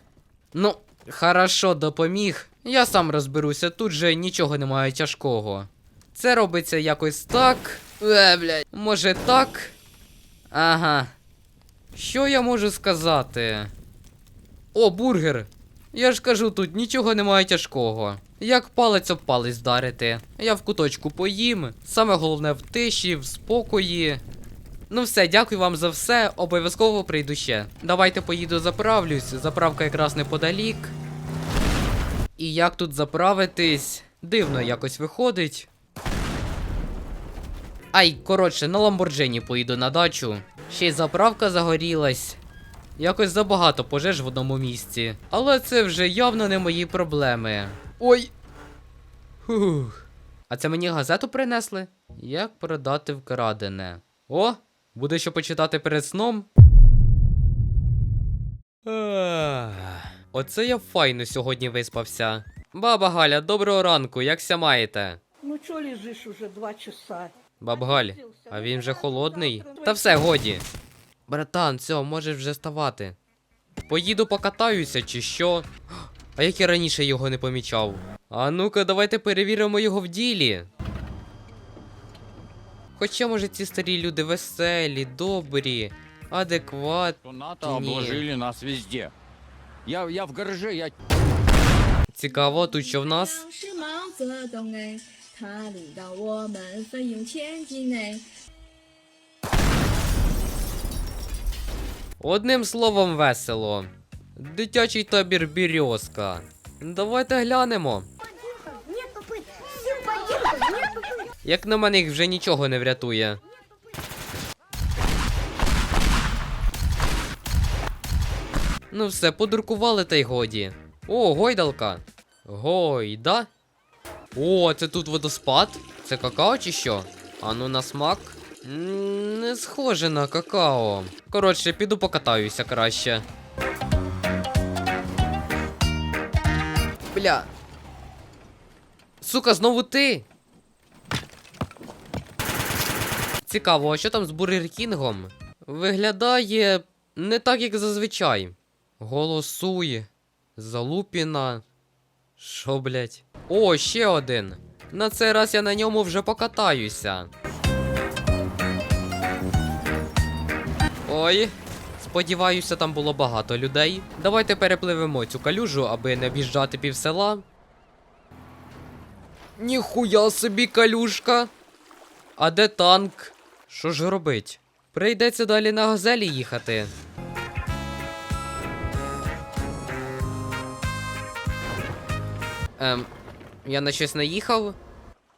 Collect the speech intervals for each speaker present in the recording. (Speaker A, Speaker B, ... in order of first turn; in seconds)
Speaker A: 0.5-9.8, 10.5-11.1, 11.9-13.7, 14.7-24.2, 24.9-30.9, 32.4-35.7, 37.9-42.4, 43.0-48.3, 49.5-56.5, 58.9-65.2, 67.6-70.7, 71.3-73.2, 73.9-75.7, 76.3-80.7, 83.0-88.3, 92.1-93.5, 102.2-108.1, 111.4-113.4, 118.9-123.5, 124.3-133.2, 137.1-137.5, 139.2-140.3, 143.5-151.7, 152.4-157.3, 161.1-167.4, 169.6-171.5, 172.4-176.9, 182.8-183.1, 183.7-184.8
Speaker B: 65.4-67.3, 68.1-69.9, 108.6-110.3
Speaker C: 87.2-89.1, 89.9-90.9
Speaker D: 92.4-98.3, 110.3-111.1